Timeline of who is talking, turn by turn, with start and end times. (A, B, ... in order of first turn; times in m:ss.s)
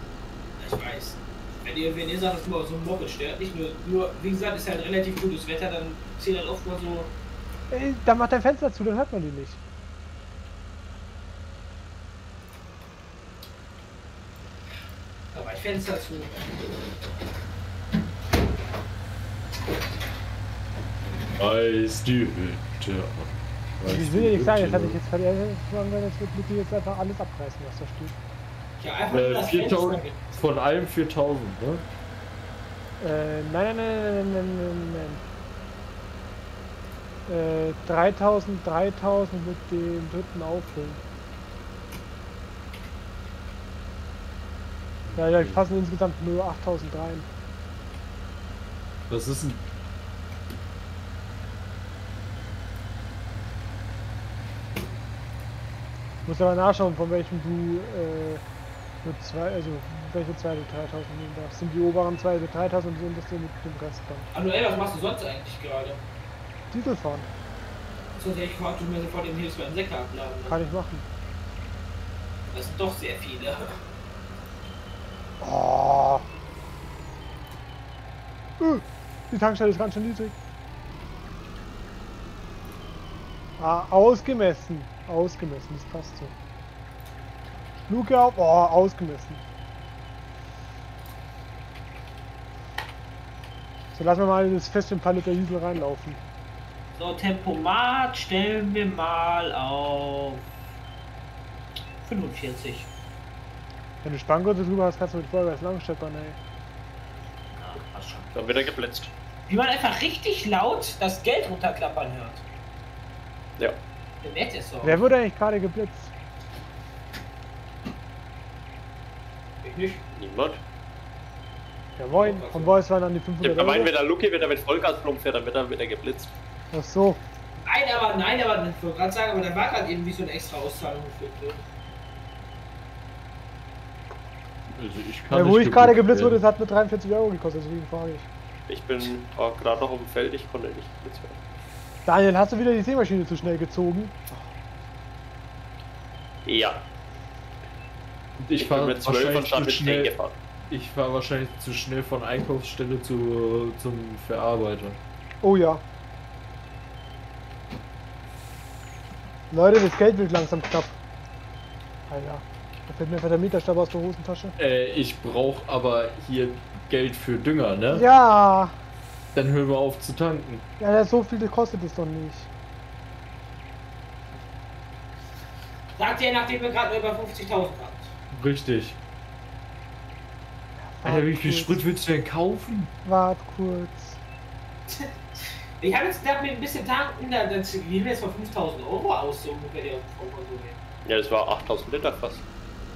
0:00.6-0:07.1 A
0:07.7-0:09.6 B
0:15.3-0:16.4 A
0:21.3-0:25.0 C
0:23.8-0:28.2 B
0:28.8-0:30.3 A
0:29.1-0:31.9 C
0:33.0-0:35.2 B
0:37.3-0:41.0 B
0:45.0-0:45.6 C
0:45.2-0:47.3 B
0:49.1-0:49.6 C
0:56.2-0:58.4 B
0:59.0-1:04.3 B
1:04.3-1:06.0 A
1:06.7-1:07.3 B
1:08.2-1:10.6 A
1:10.5-1:11.1 B
1:12.5-1:13.8 A
1:15.4-1:16.2 B
1:18.6-1:20.4 B
1:23.6-1:26.4 B
1:27.9-1:29.4 B
1:33.9-1:36.2 B
1:37.0-1:40.4 A
1:42.0-1:42.9 A
1:44.0-1:46.4 B
1:47.5-1:48.3 A
1:48.3-1:49.1 D
1:49.5-1:52.4 A
1:54.2-1:55.0 A
1:54.8-1:56.1 B
1:59.6-2:00.0 A
2:00.2-2:00.6 D
2:02.0-2:04.0 B
2:02.2-2:02.8 A
2:03.4-2:06.3 D
2:06.7-2:07.2 B
2:07.6-2:11.6 A
2:14.7-2:16.4 C
2:15.3-2:18.3 B
2:18.7-2:21.4 D
2:22.0-2:24.4 B
2:26.5-2:26.8 D
2:28.4-2:35.0 C
2:28.6-2:30.3 D
2:35.4-2:35.8 B
2:39.5-2:41.0 B
2:42.1-2:44.6 B
2:44.6-2:48.1 C
2:47.9-2:48.8 B
2:49.3-2:50.6 C
2:50.8-2:52.5 B
2:56.0-2:58.1 A
2:58.3-2:59.0 C
3:00.8-3:01.8 B
3:01.0-3:02.9 C
3:03.0-3:04.2 B
3:05.8-3:10.8 A
3:11.0-3:12.4 D